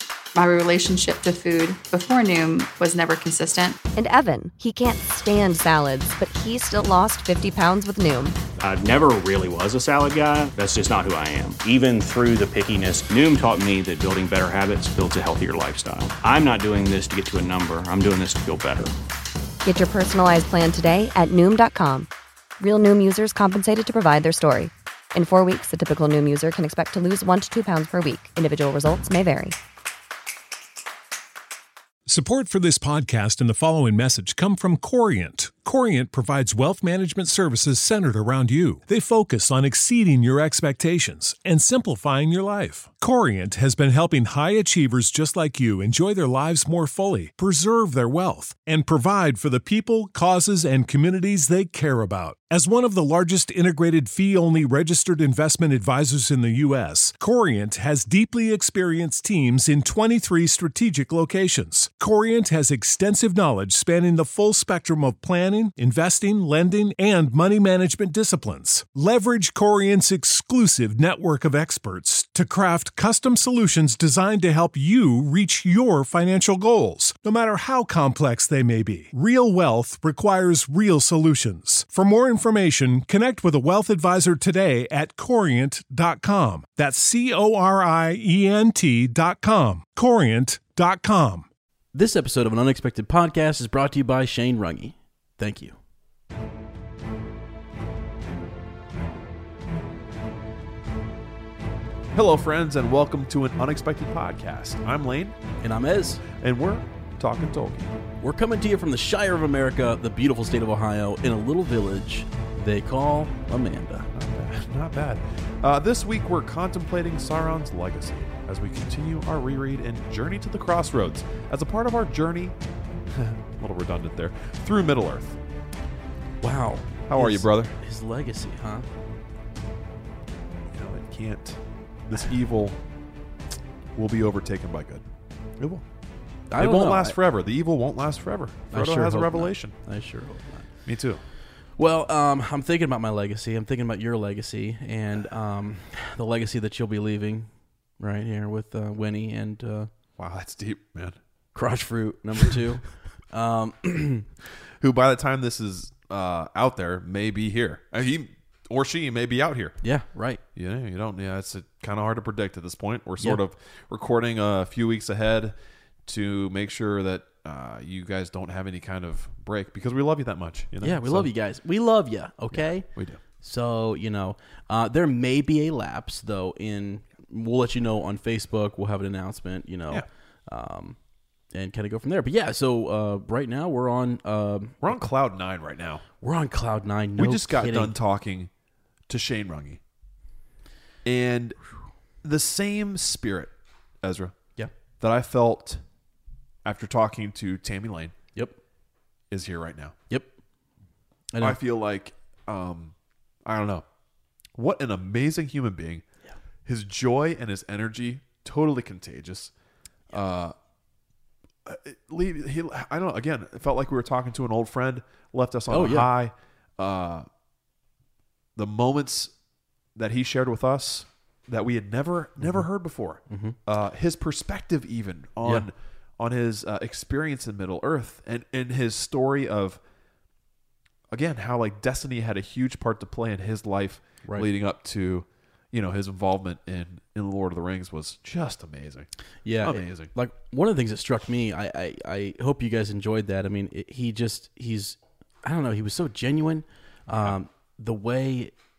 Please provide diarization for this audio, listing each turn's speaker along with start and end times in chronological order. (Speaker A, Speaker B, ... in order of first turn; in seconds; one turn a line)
Speaker A: 0.3-3.8
Speaker B: 4.0-8.4
Speaker C: 8.6-18.9
Speaker B: 19.6-29.5
Speaker D: 32.0-91.5
Speaker E: 91.9-95.8
Speaker F: 102.1-105.4
Speaker E: 105.6-106.2
Speaker F: 106.3-107.9
Speaker E: 108.2-114.1
Speaker F: 114.1-125.4
Speaker E: 126.4-128.9
Speaker F: 127.1-127.7
Speaker F: 130.7-132.8
Speaker F: 133.9-135.1
Speaker F: 135.6-135.8
Speaker E: 136.5-137.2
Speaker F: 136.5-139.8
Speaker E: 138.7-140.7
Speaker F: 140.8-141.2
Speaker E: 141.8-149.9
Speaker F: 150.2-151.2
Speaker E: 151.5-154.3
Speaker F: 154.8-159.8
Speaker E: 159.8-160.4
Speaker F: 160.5-171.3
Speaker E: 170.8-185.0
Speaker F: 172.5-173.2
Speaker F: 184.8-186.0
Speaker E: 186.2-187.9
Speaker F: 187.2-188.5
Speaker F: 189.1-189.8
Speaker F: 191.0-191.6
Speaker F: 192.2-194.4
Speaker F: 195.0-195.8
Speaker F: 196.6-198.1
Speaker F: 199.3-199.9
Speaker E: 201.3-201.6
Speaker F: 201.4-203.8
Speaker F: 204.5-206.0
Speaker F: 206.6-209.5
Speaker F: 210.1-210.5
Speaker F: 211.6-217.3
Speaker E: 215.7-216.1
Speaker F: 218.6-219.4
Speaker F: 219.9-229.8
Speaker E: 222.4-222.7
Speaker E: 223.3-223.6
Speaker E: 225.4-225.7
Speaker F: 231.1-240.1
Speaker E: 239.4-248.5